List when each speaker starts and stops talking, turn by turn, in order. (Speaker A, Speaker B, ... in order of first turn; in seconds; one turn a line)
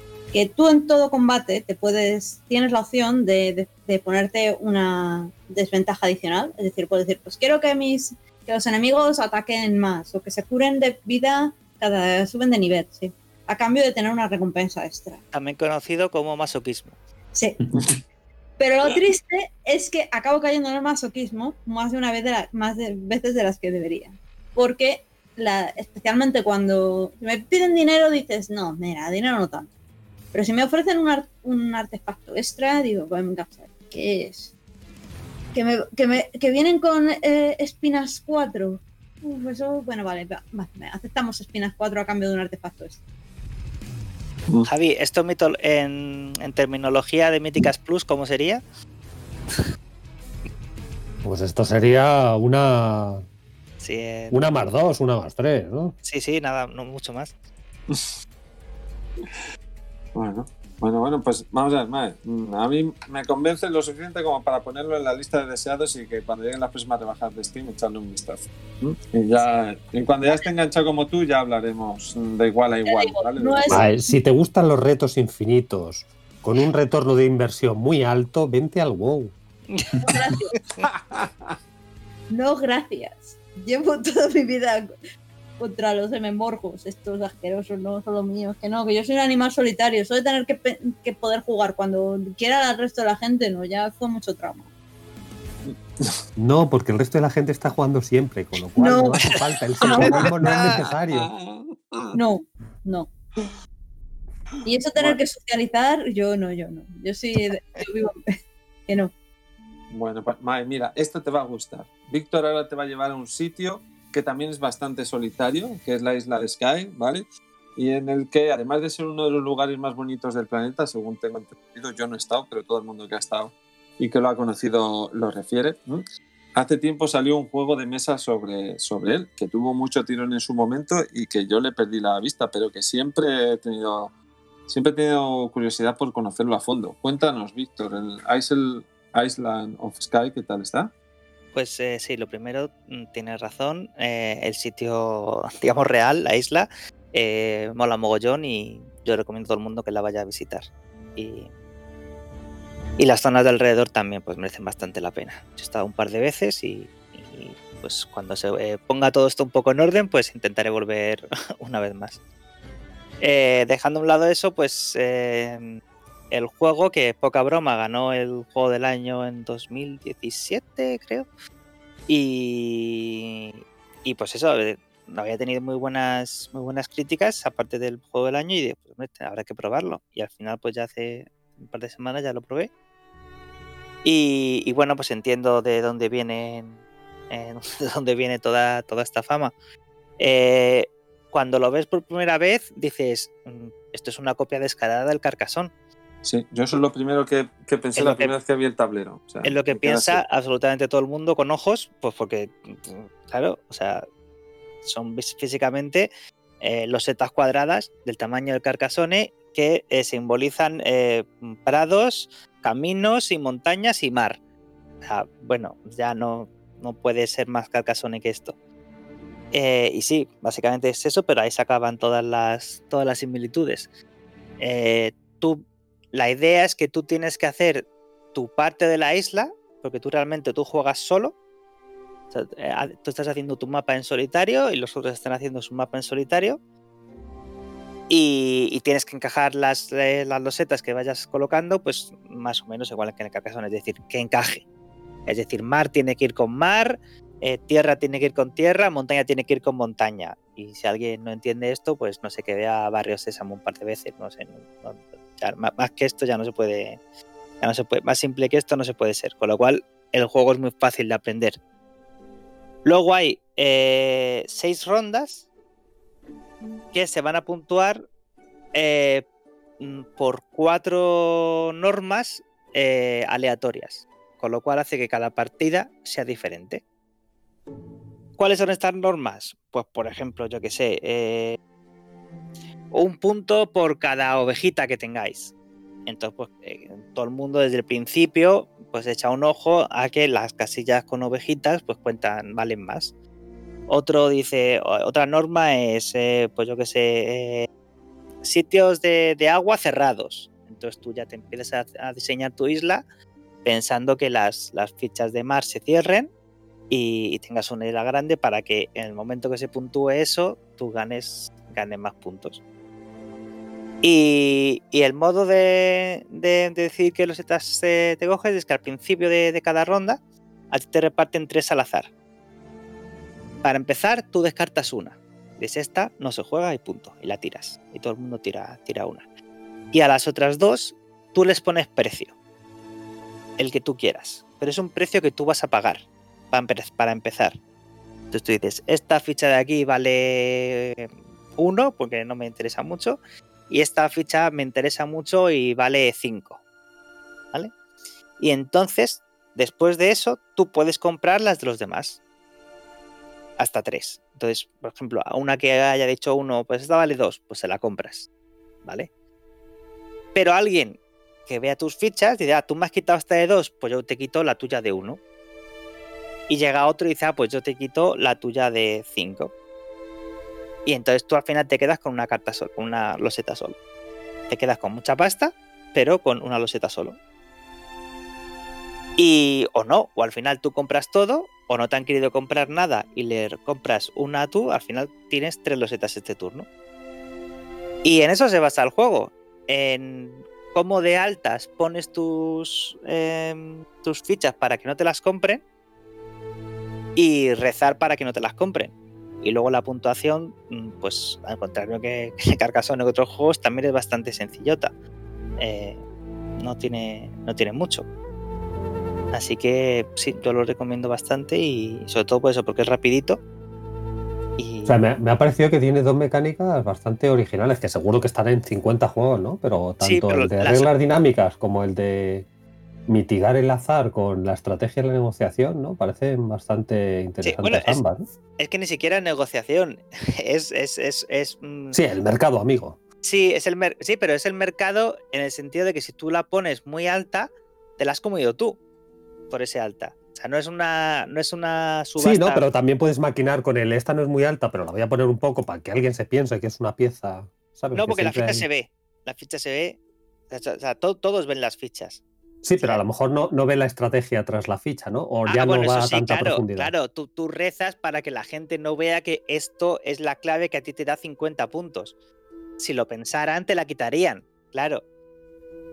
Speaker A: 0.3-15.2
Speaker B: 15.3-16.9
Speaker A: 17.3-17.6
Speaker A: 18.6-29.7
Speaker A: 30.3-34.5
Speaker A: 35.5-43.0
Speaker B: 44.7-48.6
Speaker C: 51.2-53.3
Speaker B: 53.8-54.7
Speaker C: 54.3-56.0
Speaker B: 56.0-57.3
Speaker D: 60.1-73.8
Speaker A: 72.9-73.9
Speaker C: 73.7-79.3
Speaker A: 80.0-80.5
Speaker A: 82.3-84.9
Speaker A: 85.6-94.7
Speaker D: 95.7-96.2
Speaker C: 96.4-101.3
Speaker A: 98.8-99.3
Speaker A: 99.8-100.8
Speaker D: 99.9-102.2
Speaker A: 102.1-103.1
Speaker A: 104.7-108.2
Speaker D: 109.9-126.0
Speaker D: 126.5-134.1
Speaker D: 134.7-140.9
Speaker B: 141.5-151.5
Speaker B: 153.0-162.2
Speaker B: 163.2-165.8
Speaker B: 166.3-171.3
Speaker B: 172.1-182.7
Speaker B: 184.0-186.8
Speaker B: 187.3-189.5
Speaker B: 190.2-195.7
Speaker D: 196.2-200.2
Speaker B: 198.0-198.3
Speaker B: 199.4-204.1
Speaker B: 204.8-206.1
Speaker B: 206.6-214.4
Speaker B: 215.0-218.6
Speaker B: 219.5-223.9
Speaker B: 224.6-231.3
Speaker B: 232.3-236.6
Speaker B: 238.1-244.6
Speaker B: 245.3-257.0
Speaker B: 257.6-261.6
Speaker B: 262.9-265.5
Speaker B: 266.9-268.1
Speaker B: 268.7-269.2
Speaker B: 269.8-276.8
Speaker B: 278.4-281.6
Speaker B: 282.9-285.5
Speaker B: 286.1-293.1
Speaker B: 293.9-297.7
Speaker B: 298.4-303.0
Speaker B: 303.6-306.3
Speaker B: 306.9-312.6
Speaker B: 314.0-320.2
Speaker B: 320.7-322.1
Speaker B: 323.6-329.2
Speaker B: 329.9-332.3
Speaker B: 333.6-337.6
Speaker B: 338.3-346.6
Speaker B: 348.4-352.2
Speaker B: 353.6-358.3
Speaker B: 358.8-359.1
Speaker B: 360.3-365.2
Speaker B: 366.5-369.5
Speaker B: 370.9-373.8
Speaker B: 374.5-377.2
Speaker B: 379.2-386.7
Speaker B: 388.0-395.6
Speaker B: 397.2-404.9
Speaker B: 405.6-406.0
Speaker B: 406.6-408.1
Speaker B: 409.3-413.4
Speaker B: 414.6-415.0
Speaker C: 414.9-422.5
Speaker B: 420.0-420.9
Speaker C: 423.1-428.2
Speaker B: 427.4-428.0
Speaker B: 428.6-432.0
Speaker C: 431.9-433.0
Speaker B: 433.2-438.8
Speaker B: 439.5-442.6
Speaker C: 442.2-448.7
Speaker B: 447.9-450.0
Speaker B: 450.5-452.2
Speaker C: 452.6-456.9
Speaker B: 455.5-462.1
Speaker B: 462.8-465.0